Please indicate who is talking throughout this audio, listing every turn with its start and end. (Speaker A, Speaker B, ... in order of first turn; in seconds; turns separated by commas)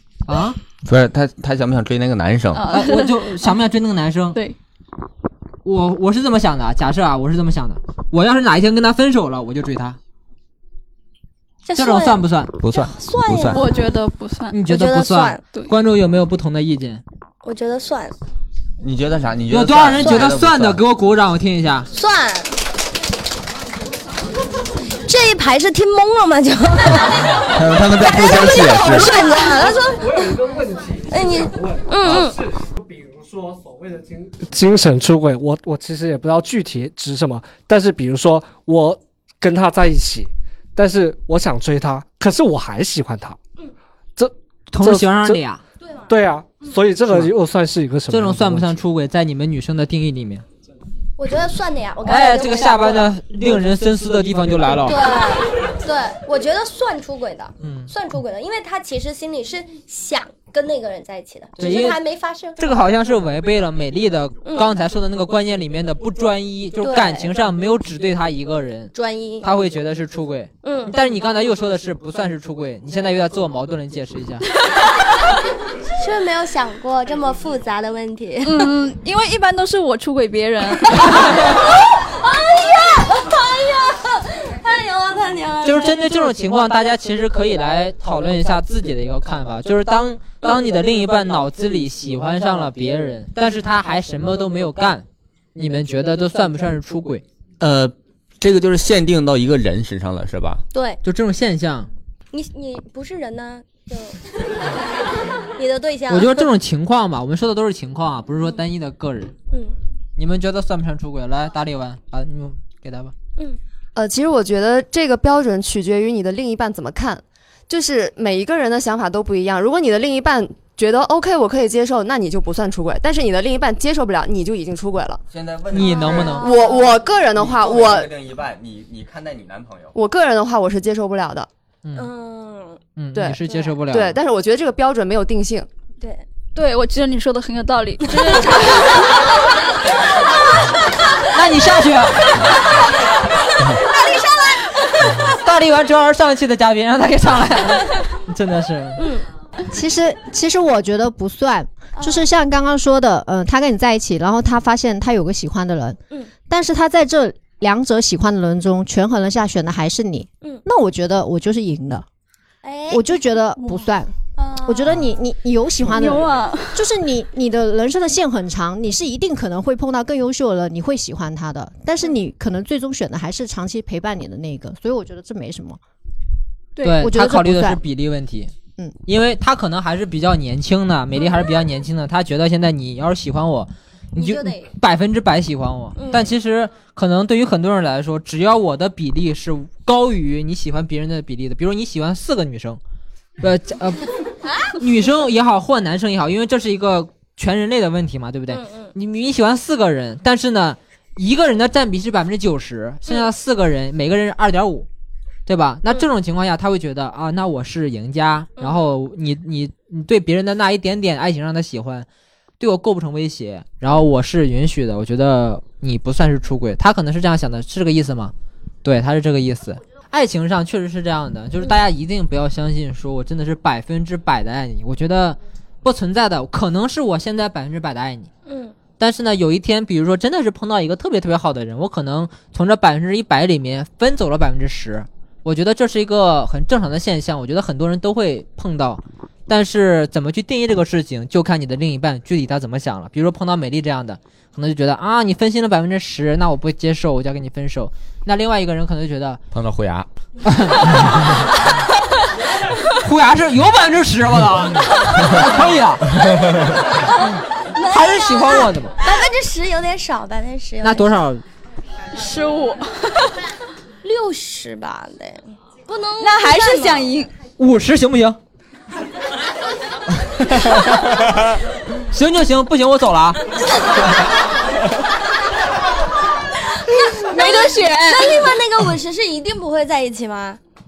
Speaker A: 0.3-0.6, Speaker B: 0.8-2.6, Speaker C: 2.5-3.5, Speaker A: 2.7-4.4, Speaker A: 5.6-10.0, Speaker D: 11.7-12.2, Speaker A: 11.8-12.6, Speaker B: 12.6-13.6, Speaker D: 12.8-13.6, Speaker C: 13.5-14.5, Speaker A: 14.5-17.0, Speaker D: 14.7-15.4, Speaker D: 17.4-18.1, Speaker B: 18.8-20.8, Speaker A: 19.5-21.9, Speaker D: 20.0-20.3, Speaker D: 21.9-22.5, Speaker D: 25.1-30.3, Speaker B: 27.5-29.1, Speaker E: 29.4-43.4, Speaker D: 31.1-32.4, Speaker E: 44.2-45.4, Speaker A: 44.7-45.6, Speaker E: 46.1-48.8, Speaker A: 47.1-47.3, Speaker A: 48.1-50.4, Speaker D: 51.2-53.1, Speaker A: 52.0-55.0, Speaker D: 54.8-62.6, Speaker A: 57.6-57.9, Speaker A: 61.6-62.0, Speaker A: 62.6-74.4, Speaker D: 64.5-64.7, Speaker D: 66.8-67.3, Speaker D: 68.9-69.5, Speaker D: 70.6-70.9, Speaker D: 76.0-78.7, Speaker C: 78.4-81.2, Speaker D: 81.0-86.0, Speaker A: 85.6-97.2, Speaker B: 97.6-100.6, Speaker D: 100.7-101.0, Speaker A: 101.0-101.9, Speaker D: 102.3-104.2, Speaker D: 105.5-106.5, Speaker A: 106.1-109.3, Speaker A: 110.2-113.1, Speaker F: 113.9-125.2, Speaker B: 125.3-129.9, Speaker A: 125.7-126.5, Speaker D: 125.9-126.9, Speaker F: 126.4-128.1, Speaker F: 129.9-131.5, Speaker A: 131.8-132.1, Speaker D: 131.9-132.8, Speaker A: 132.9-134.2, Speaker F: 133.1-135.7, Speaker C: 136.5-139.1, Speaker D: 138.1-139.0, Speaker A: 141.3-142.2, Speaker D: 143.7-145.2, Speaker A: 145.2-149.1, Speaker D: 149.0-149.2, Speaker G: 149.7-162.0, Speaker D: 162.6-163.0, Speaker G: 162.9-175.8, Speaker D: 164.4-164.9, Speaker C: 165.9-166.8, Speaker C: 176.8-177.1, Speaker A: 176.8-178.5, Speaker G: 177.0-177.8, Speaker A: 179.1-192.8, Speaker D: 184.2-184.7, Speaker D: 185.9-186.3, Speaker A: 193.4-194.1, Speaker A: 194.8-204.9, Speaker D: 198.5-198.9, Speaker A: 205.5-212.1, Speaker D: 208.6-208.9, Speaker A: 212.6-218.3, Speaker A: 218.8-228.3, Speaker D: 228.5-228.7, Speaker A: 229.0-249.4, Speaker B: 249.5-250.1, Speaker A: 250.4-251.4, Speaker A: 252.9-256.2, Speaker D: 257.7-261.1, Speaker A: 257.9-259.0, Speaker A: 260.8-261.4, Speaker C: 262.1-263.3, Speaker D: 264.0-267.1, Speaker C: 266.2-267.3, Speaker A: 267.6-268.4, Speaker A: 272.1-273.4, Speaker D: 276.7-280.6, Speaker C: 277.4-278.3